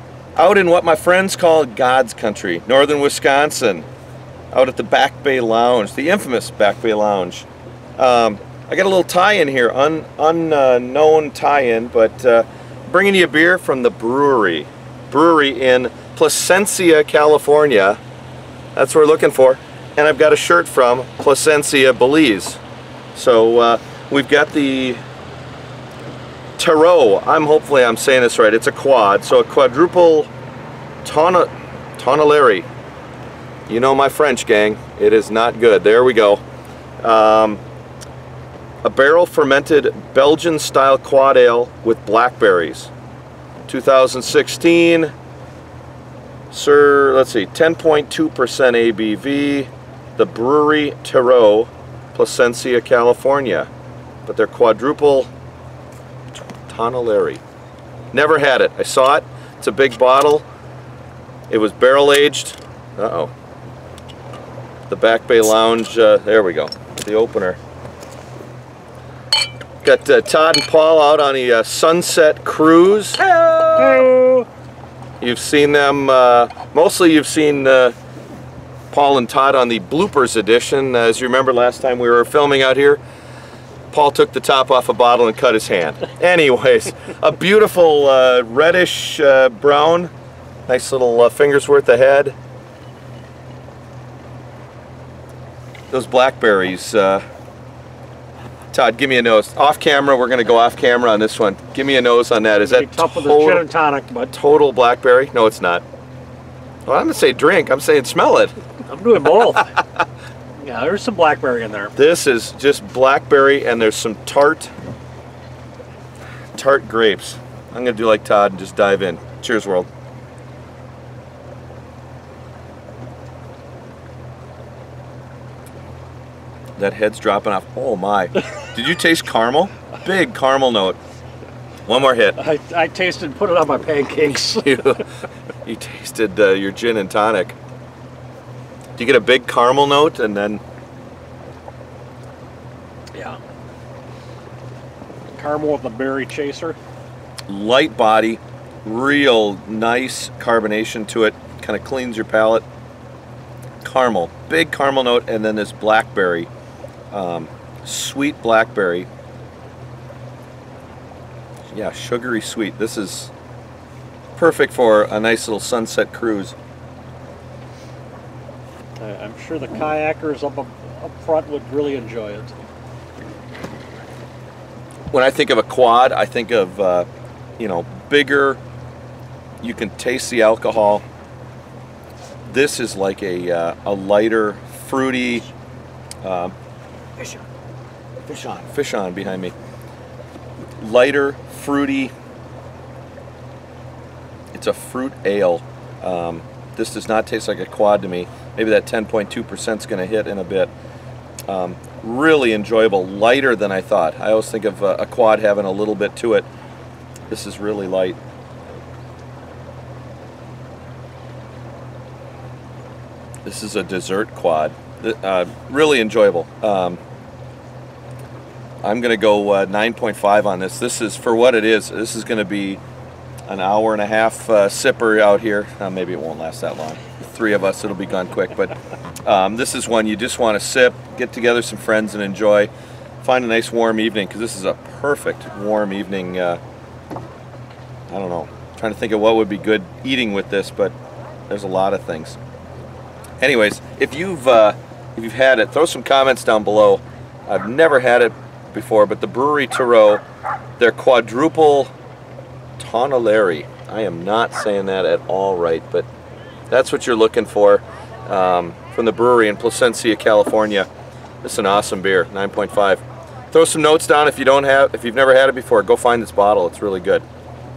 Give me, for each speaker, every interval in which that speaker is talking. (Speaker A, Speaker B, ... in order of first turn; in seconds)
Speaker A: 0.4-3.9, 4.5-7.5, 8.0-18.0, 18.8-22.6, 23.1-25.0, 26.6-30.3, 31.0-32.7, 33.7-36.4, 37.0-37.6, 38.8-42.9, 43.7-45.1, 46.5-53.7, 54.3-55.3, 56.7-57.4, 58.1-60.5, 61.5-63.3, 64.9-67.6, 69.8-74.0, 75.2-78.0, 78.9-83.0, 83.9-90.1, 90.7-92.3, 95.9-97.2, 98.7-103.6, 104.3-105.8, 106.9-108.5, 112.0-114.7, 116.5-119.9, 126.8-131.0, 131.9-132.4, 134.5-135.0, 135.7-137.6, 139.0-140.6, 147.5-152.6, 153.8-156.5, 157.1-159.1, 161.7-163.3, 164.4-166.6, 175.1-177.1, 177.6-178.6, 179.6-181.0, 182.5-185.5, 186.2-186.5, 188.3-189.5, 190.8-192.1, 194.5-200.7, 201.5-206.5, 207.3-208.2, 213.4-217.0, 218.8-222.8, 223.5-228.7, 229.2-232.7, 233.2-236.6, 238.1-240.9, 241.5-242.4, 243.4-250.2, 250.8-251.9, 252.8-256.1, 256.7-260.9, 261.4-267.2
Speaker B: 73.8-74.5, 102.6-104.3, 108.9-109.8, 110.6-111.9, 132.4-135.0, 145.3-146.8, 169.0-172.6